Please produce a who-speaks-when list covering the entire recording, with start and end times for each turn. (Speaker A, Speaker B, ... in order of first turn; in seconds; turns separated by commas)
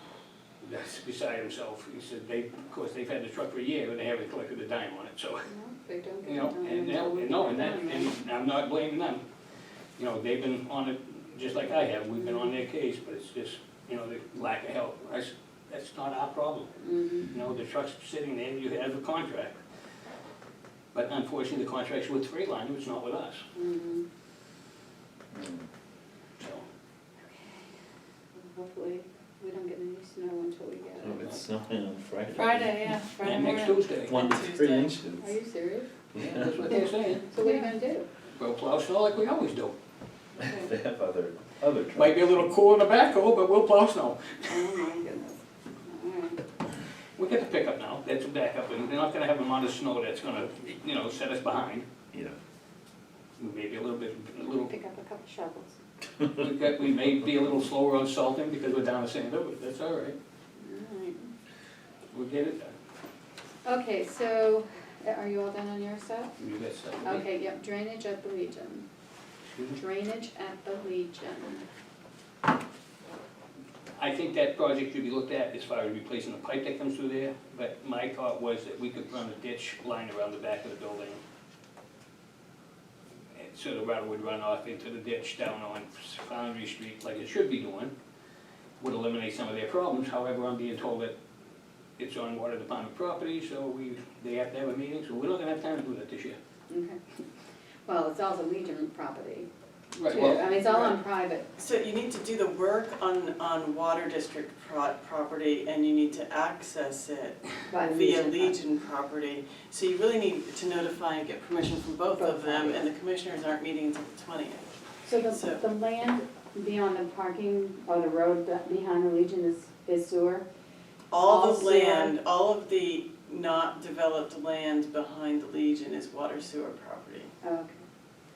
Speaker A: 0.6-5.5, Speaker B: 5.5-8.1, Speaker A: 6.2-9.2, Speaker A: 10.0-19.6, Speaker B: 16.8-17.3, Speaker A: 20.9-23.5, Speaker B: 23.6-24.1, Speaker C: 25.3-25.7, Speaker A: 26.4-26.6, Speaker B: 27.3-27.7, Speaker B: 28.3-31.4, Speaker C: 31.0-33.0, Speaker B: 32.4-33.8, Speaker A: 33.2-34.2, Speaker C: 34.0-35.3, Speaker D: 34.1-35.0, Speaker B: 35.2-35.9, Speaker C: 36.1-36.9, Speaker A: 36.2-37.6, Speaker B: 37.3-38.1, Speaker A: 38.4-39.7, Speaker B: 40.4-40.7, Speaker C: 40.4-42.5, Speaker A: 41.9-44.8, Speaker B: 44.5-46.4, Speaker A: 47.2-51.9, Speaker A: 53.4-54.7, Speaker B: 54.7-55.8, Speaker A: 56.3-60.2, Speaker B: 60.6-61.3, Speaker A: 62.1-62.7, Speaker B: 63.6-66.4, Speaker A: 66.4-67.3, Speaker B: 67.0-68.9, Speaker A: 69.5-69.8, Speaker B: 69.8-71.7, Speaker A: 74.0-81.2, Speaker A: 83.3-87.9, Speaker A: 88.8-91.2, Speaker A: 92.0-96.4, Speaker B: 96.7-97.0, Speaker B: 97.9-99.5, Speaker A: 99.9-101.0, Speaker B: 100.0-101.5, Speaker D: 101.6-114.7, Speaker B: 107.7-108.6, Speaker B: 112.2-112.9, Speaker B: 115.0-120.5, Speaker D: 115.3-115.6, Speaker D: 121.1-127.3, Speaker B: 121.2-122.2, Speaker B: 127.4-127.8